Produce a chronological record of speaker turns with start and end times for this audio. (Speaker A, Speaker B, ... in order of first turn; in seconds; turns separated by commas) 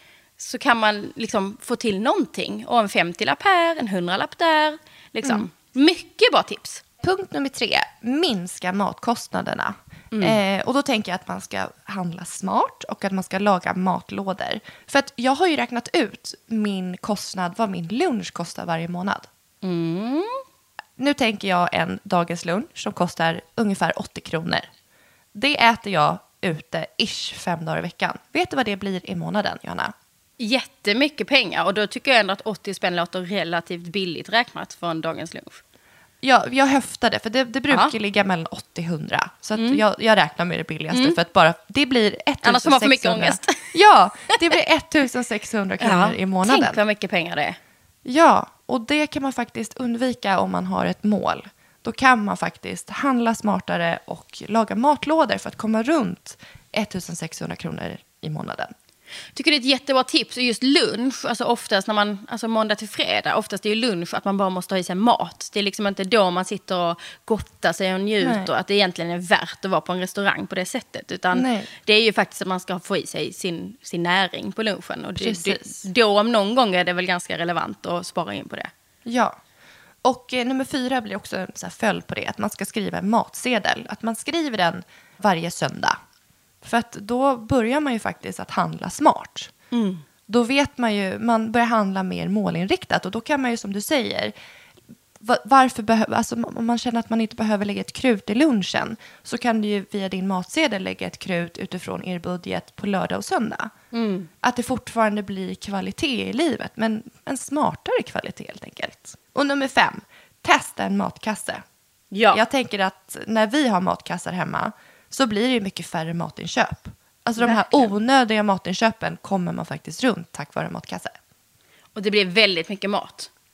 Speaker A: 0.4-6.8, Speaker B: 7.0-19.3, Speaker A: 10.1-10.4, Speaker A: 19.6-20.4, Speaker B: 21.0-24.7, Speaker B: 25.3-29.9, Speaker A: 30.4-35.6, Speaker B: 36.2-46.8, Speaker A: 39.5-39.8, Speaker A: 42.4-43.7, Speaker A: 45.8-47.6, Speaker B: 48.0-58.7, Speaker A: 59.3-78.7, Speaker B: 68.2-68.5, Speaker B: 71.3-71.7, Speaker B: 75.2-75.7, Speaker B: 79.0-79.3, Speaker B: 80.0-86.0, Speaker B: 86.6-89.5, Speaker A: 89.7-90.0, Speaker B: 90.3-94.3, Speaker B: 95.2-103.7, Speaker A: 103.9-104.3, Speaker B: 104.4-111.6, Speaker A: 112.1-112.4, Speaker B: 112.3-121.2, Speaker A: 117.4-117.9, Speaker A: 122.0-123.3